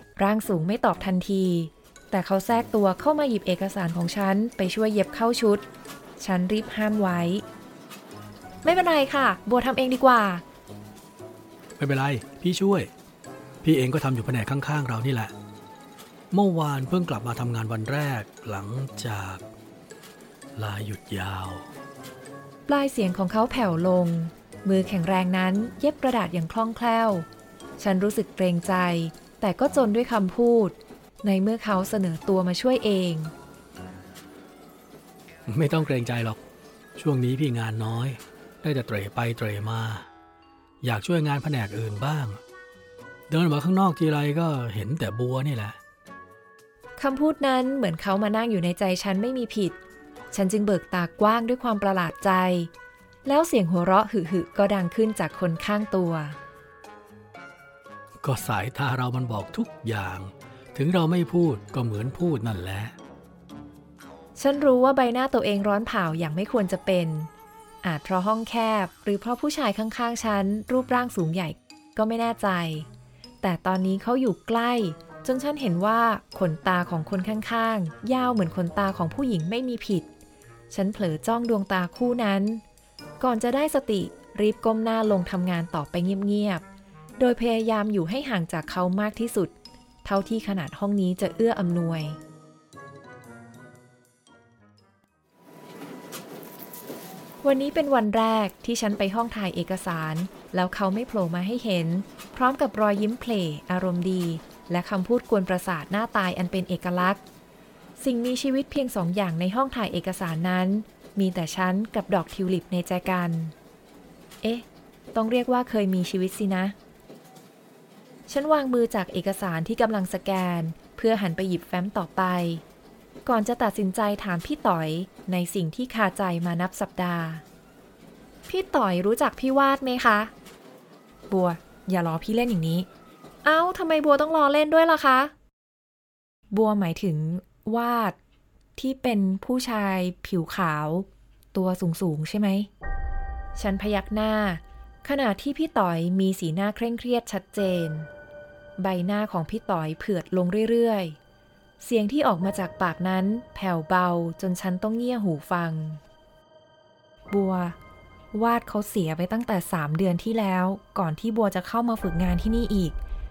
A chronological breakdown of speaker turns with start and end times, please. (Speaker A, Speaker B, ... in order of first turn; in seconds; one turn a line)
Speaker A: 0.1-5.6
Speaker A: 6.2-7.4
Speaker A: 8.6-10.4
Speaker B: 11.8-12.9
Speaker B: 13.6-15.3
Speaker B: 16.3-19.4
Speaker B: 20.6-21.7
Speaker A: 22.7-27.2
Speaker A: 27.8-33.3
Speaker B: 35.5-36.4
Speaker B: 37.0-40.1
Speaker B: 40.8-42.4
Speaker B: 43.3-45.8
Speaker A: 47.0-49.8
Speaker A: 50.3-52.7
Speaker A: 53.2-56.4
Speaker B: 58.2-62.9
Speaker A: 64.3-67.3
Speaker A: 67.8-72.9
Speaker A: 73.4-80.1
Speaker A: 80.7-82.6
Speaker A: 83.2-86.6
Speaker A: 87.2-89.5
Speaker A: 90.0-92.2
Speaker A: 97.4-107.2
Speaker A: 108.0-113.5
Speaker A: 114.4-116.7
Speaker A: 118.3-122.6
Speaker A: 123.2-127.4
Speaker A: 128.5-130.3
Speaker A: 131.3-132.9
Speaker A: 133.4-135.3
Speaker A: 136.5-138.2
Speaker A: 138.8-142.7
Speaker A: 143.5-148.1
Speaker A: 148.8-151.2
Speaker A: 151.8-156.0
Speaker A: 157.3-157.8
Speaker A: 158.3-163.0